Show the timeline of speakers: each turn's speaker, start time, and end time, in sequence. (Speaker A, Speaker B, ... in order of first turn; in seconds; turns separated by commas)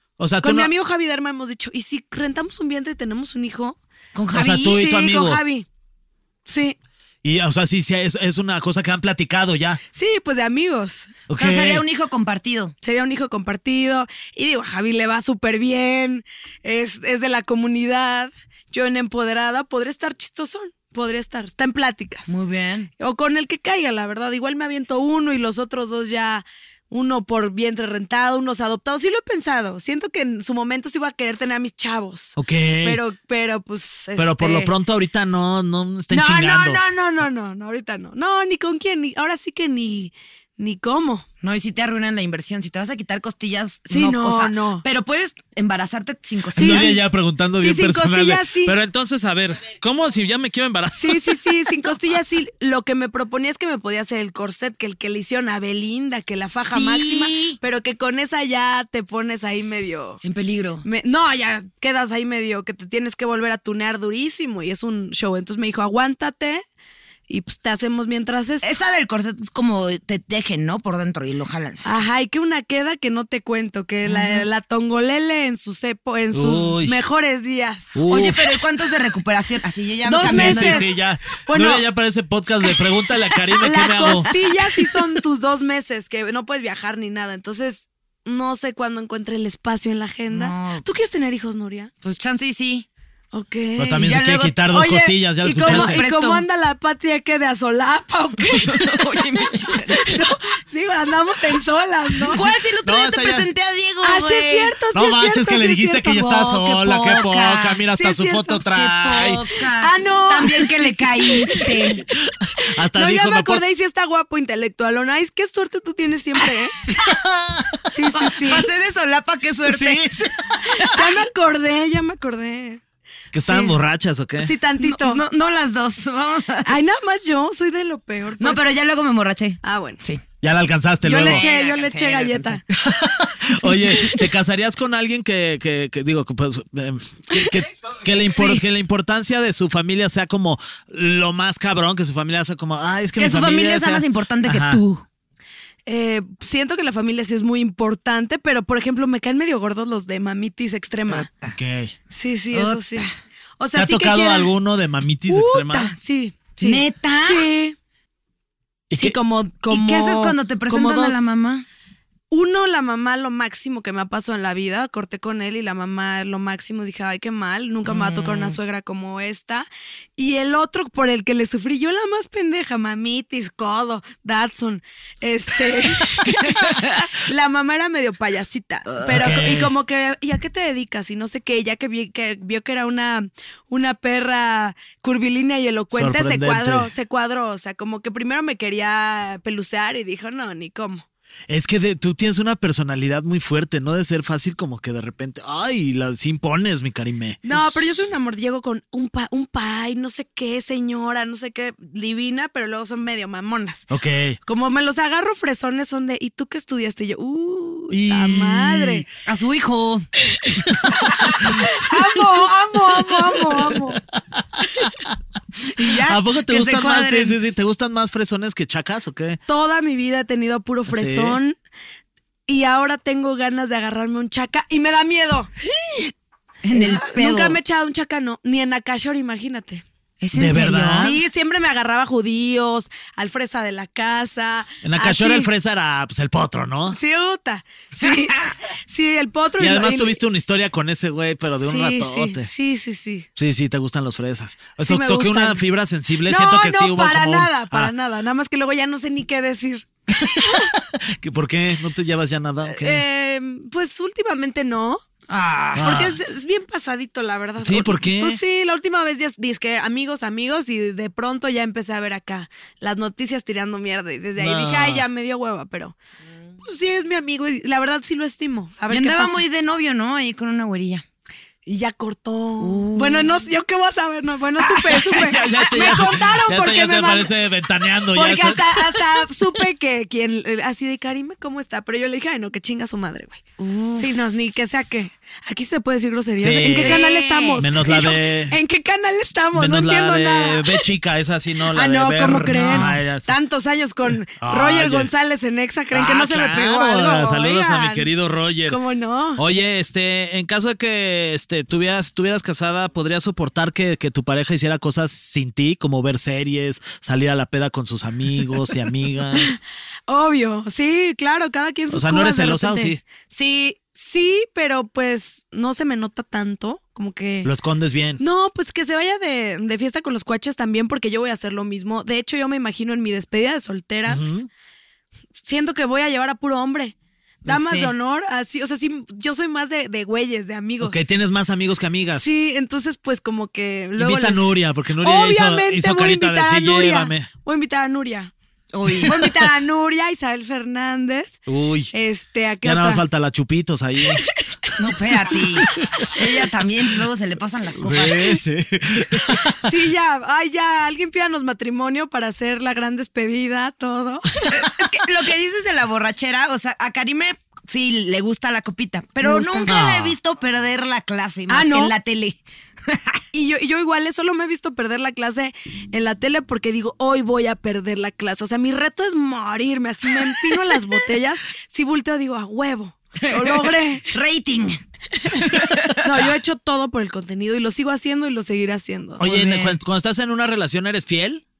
Speaker A: 0.2-0.7, Speaker B: 0.4-3.8, Speaker C: 4.1-4.8, Speaker A: 4.3-5.4, Speaker B: 4.5-5.7, Speaker B: 6.5-6.8, Speaker A: 7.2-9.8, Speaker B: 9.9-11.2, Speaker A: 11.3-11.8, Speaker C: 11.3-12.7, Speaker B: 12.8-22.3, Speaker C: 22.3-22.9, Speaker B: 23.0-34.7, Speaker A: 32.4-33.0, Speaker A: 34.2-36.8, Speaker B: 36.1-41.2, Speaker C: 41.4-46.9, Speaker B: 43.9-44.8, Speaker B: 46.5-47.0, Speaker A: 46.5-51.6, Speaker B: 47.6-48.8, Speaker B: 51.0-60.2, Speaker C: 56.6-57.6, Speaker C: 60.2-60.9, Speaker B: 60.8-66.6, Speaker B: 67.3-68.7, Speaker C: 68.6-71.9, Speaker B: 71.8-78.0, Speaker C: 74.0-74.5, Speaker A: 76.3-77.0, Speaker A: 77.9-78.4, Speaker C: 78.1-80.9, Speaker B: 80.0-81.8, Speaker A: 80.2-84.3, Speaker B: 83.6-91.9, Speaker C: 84.0-84.8, Speaker C: 90.3-90.9, Speaker C: 92.0-92.9, Speaker B: 93.3-94.1, Speaker A: 93.8-96.0, Speaker C: 94.0-94.5, Speaker B: 94.6-98.9, Speaker C: 95.6-96.5, Speaker C: 98.7-100.1, Speaker B: 99.9-102.5, Speaker C: 102.3-104.8, Speaker A: 102.8-103.5, Speaker B: 104.0-106.6, Speaker A: 104.9-109.4, Speaker C: 106.6-107.8, Speaker B: 107.9-108.6, Speaker C: 108.7-112.0, Speaker B: 109.8-112.0, Speaker A: 112.5-113.6, Speaker B: 112.9-116.8, Speaker A: 117.1-117.8, Speaker B: 117.9-118.7, Speaker C: 118.1-121.2, Speaker A: 119.7-120.0, Speaker B: 120.8-122.8, Speaker A: 123.3-124.5, Speaker B: 123.5-123.8, Speaker B: 124.4-125.2, Speaker C: 124.8-126.7, Speaker B: 126.6-128.7, Speaker C: 128.4-130.2, Speaker B: 129.6-130.0, Speaker A: 130.4-131.4, Speaker B: 131.0-132.6, Speaker C: 131.2-132.6, Speaker A: 132.7-144.8, Speaker C: 138.3-138.6, Speaker C: 143.2-145.0, Speaker B: 145.9-151.3, Speaker C: 151.1-151.6, Speaker A: 151.5-151.9, Speaker B: 152.1-153.1, Speaker C: 152.5-153.1, Speaker B: 153.6-154.5, Speaker A: 153.7-155.9, Speaker B: 155.3-157.8, Speaker C: 156.6-157.5, Speaker A: 158.9-159.2, Speaker B: 158.9-161.2, Speaker C: 159.7-161.6, Speaker B: 162.3-191.0, Speaker C: 167.8-168.6, Speaker C: 176.4-177.0, Speaker A: 179.0-179.7, Speaker A: 185.9-186.9, Speaker A: 191.5-197.8, Speaker B: 197.4-203.9, Speaker A: 203.9-204.4, Speaker B: 204.4-209.1, Speaker A: 207.9-209.0, Speaker C: 209.2-210.1, Speaker A: 210.7-212.2, Speaker B: 211.0-214.0, Speaker A: 212.9-215.1, Speaker B: 215.8-216.1, Speaker C: 215.8-217.4, Speaker A: 215.9-219.4, Speaker B: 219.5-221.6, Speaker A: 220.9-221.4, Speaker B: 222.5-225.5, Speaker C: 226.6-227.6, Speaker B: 226.7-229.8, Speaker C: 230.2-231.2, Speaker A: 230.3-231.1, Speaker B: 230.9-235.5, Speaker A: 234.8-237.0, Speaker B: 236.9-240.2, Speaker C: 238.0-238.5, Speaker A: 239.6-242.5, Speaker B: 241.5-243.3, Speaker A: 243.4-247.9, Speaker B: 244.8-245.6, Speaker B: 246.2-249.9, Speaker A: 250.1-253.0, Speaker B: 250.4-250.7, Speaker B: 252.7-255.0, Speaker C: 255.4-255.7, Speaker B: 255.7-266.0, Speaker A: 255.7-256.2, Speaker A: 257.6-258.4, Speaker A: 264.4-265.0, Speaker B: 266.6-269.4, Speaker C: 268.9-271.0, Speaker B: 271.6-277.3, Speaker C: 272.6-273.4, Speaker A: 274.6-279.2, Speaker B: 278.1-283.4, Speaker C: 283.6-284.1, Speaker B: 283.9-290.9, Speaker A: 286.4-287.0, Speaker C: 286.7-287.7, Speaker A: 287.6-288.6, Speaker A: 289.5-293.3, Speaker B: 291.7-298.1, Speaker C: 292.4-292.9, Speaker A: 294.4-295.1, Speaker A: 295.9-298.8, Speaker B: 298.7-299.4, Speaker A: 299.4-309.6, Speaker B: 309.3-317.5, Speaker A: 311.9-313.0, Speaker A: 317.4-318.2, Speaker B: 318.2-324.4, Speaker A: 324.1-324.5, Speaker B: 325.3-331.1, Speaker C: 327.4-327.9, Speaker A: 330.8-332.3, Speaker B: 332.1-338.3, Speaker A: 333.9-337.3, Speaker C: 338.7-339.2, Speaker A: 338.9-339.3, Speaker B: 339.0-343.0, Speaker A: 341.5-341.9, Speaker A: 342.6-344.2, Speaker B: 344.1-344.7, Speaker C: 344.8-348.4, Speaker A: 345.8-346.1, Speaker A: 347.8-349.7, Speaker B: 349.5-354.5, Speaker C: 354.5-363.2, Speaker B: 359.2-359.7, Speaker A: 359.7-360.2, Speaker B: 361.5-361.9, Speaker B: 363.3-374.1, Speaker C: 370.5-370.8, Speaker C: 373.2-376.0, Speaker B: 376.0-379.2, Speaker A: 379.2-381.4, Speaker C: 379.2-379.8